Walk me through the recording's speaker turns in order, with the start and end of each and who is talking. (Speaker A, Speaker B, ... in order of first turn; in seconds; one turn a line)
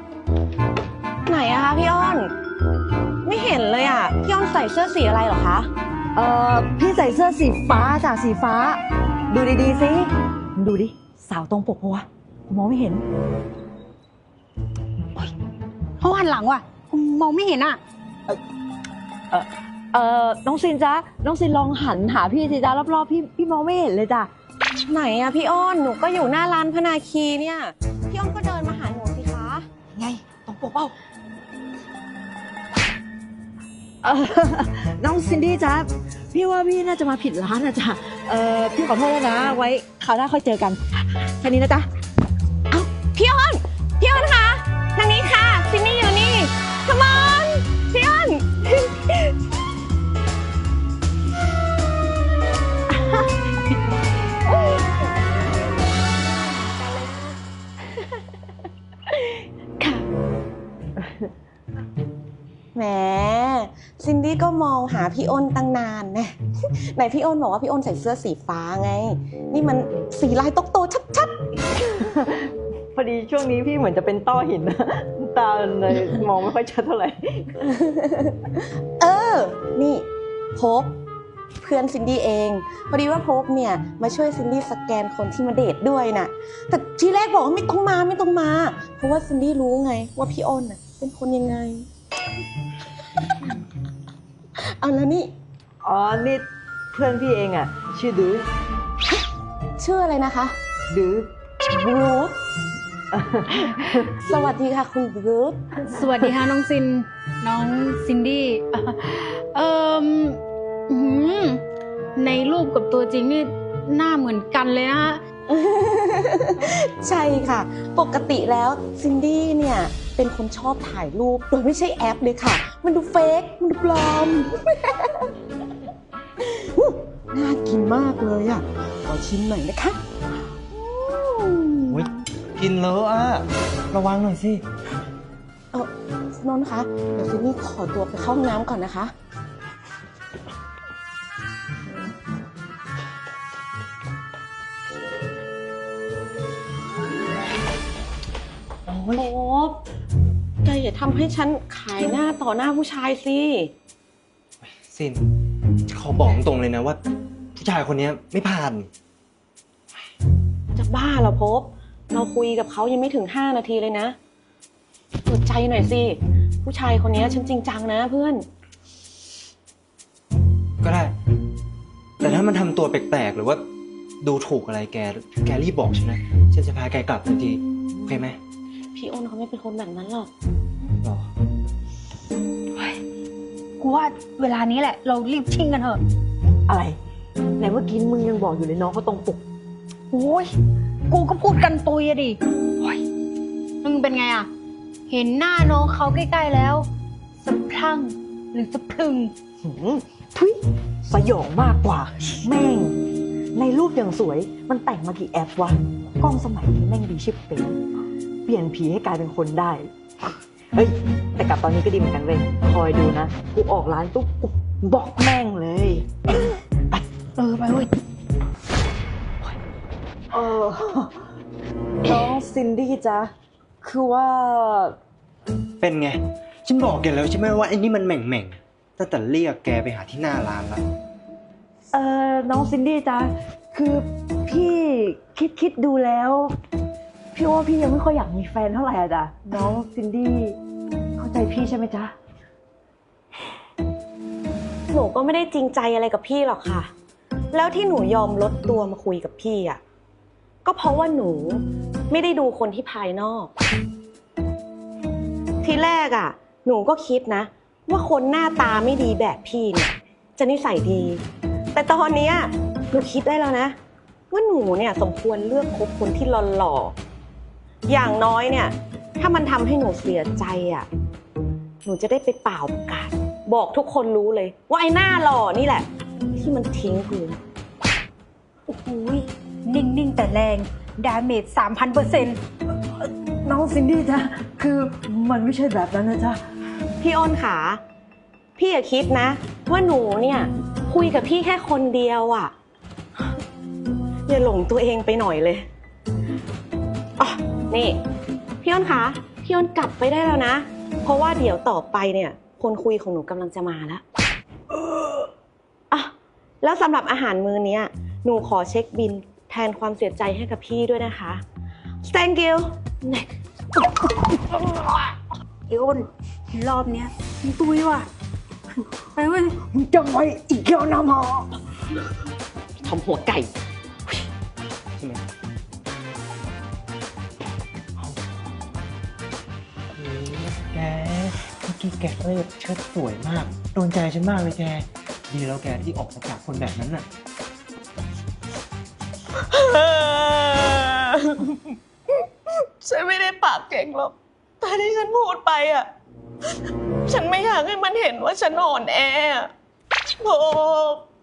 Speaker A: 1.2-2.3
Speaker A: 3.2-5.7
Speaker B: 6.1-13.0
Speaker C: 16.0-17.8
Speaker B: 19.3-24.3
Speaker A: 24.9-29.7
Speaker B: 29.9-30.9
Speaker B: 34.0-40.8
Speaker B: 41.4-41.9
Speaker A: 42.7-49.3
Speaker A: 54.6-57.4
Speaker A: 59.1-60.0
Speaker A: 62.7-66.3
Speaker A: 66.9-71.3
Speaker B: 72.0-77.5
Speaker A: 77.7-81.0
Speaker A: 81.6-91.9
Speaker A: 94.6-95.3
Speaker B: 95.8-98.5
Speaker A: 99.8-100.5
Speaker B: 100.9-101.3
Speaker A: 101.7-102.4
Speaker B: 103.1-104.5
Speaker A: 104.0-105.9
Speaker C: 105.9-111.6
Speaker C: 112.2-115.2
Speaker A: 115.5-125.3
Speaker A: 126.4-130.0
Speaker A: 130.7-132.1
Speaker D: 131.9-134.6
Speaker A: 135.7-139.1
Speaker D: 148.9-149.3
Speaker A: 149.2-149.8
Speaker A: 150.6-153.7
Speaker D: 154.6-155.2
Speaker D: 155.9-157.0
Speaker D: 157.5-158.9
Speaker A: 160.7-164.2
Speaker A: 165.2-168.5
Speaker D: 170.8-171.1
Speaker D: 172.2-173.6
Speaker D: 174.2-178.4
Speaker A: 178.9-180.3
Speaker D: 181.0-181.3
Speaker C: 183.8-186.0
Speaker B: 186.7-187.0
Speaker B: 187.6-189.4
Speaker C: 190.1-190.5
Speaker C: 191.1-192.4
Speaker C: 193.8-194.5
Speaker C: 195.1-196.8
Speaker C: 197.4-199.3
Speaker B: 199.6-203.0
Speaker B: 203.5-207.8
Speaker B: 208.4-209.9
Speaker B: 210.7-216.1
Speaker C: 217.4-217.9
Speaker B: 220.3-221.1
Speaker B: 222.0-224.9
Speaker D: 225.8-230.8
Speaker B: 231.9-236.5
Speaker B: 237.3-240.6
Speaker B: 241.2-242.1
Speaker A: 244.9-246.9
Speaker A: 247.5-249.8
Speaker A: 250.6-253.5
Speaker A: 255.6-263.8
Speaker A: 264.3-266.9
Speaker A: 267.9-270.9
Speaker A: 271.8-277.4
Speaker B: 278.7-279.2
Speaker C: 279.6-282.4
Speaker B: 283.0-286.4
Speaker A: 287.0-287.8
Speaker A: 288.6-292.5
Speaker A: 294.3-295.6
Speaker A: 297.2-298.0
Speaker A: 298.6-304.0
Speaker A: 305.9-311.4
Speaker A: 312.0-313.4
Speaker A: 314.0-314.3
Speaker C: 315.7-318.1
Speaker C: 319.1-319.6
Speaker B: 319.6-321.5
Speaker A: 322.8-323.5
Speaker D: 325.0-325.2
Speaker D: 329.9-337.1
Speaker A: 339.4-345.9
Speaker A: 347.1-349.5
Speaker A: 350.2-351.1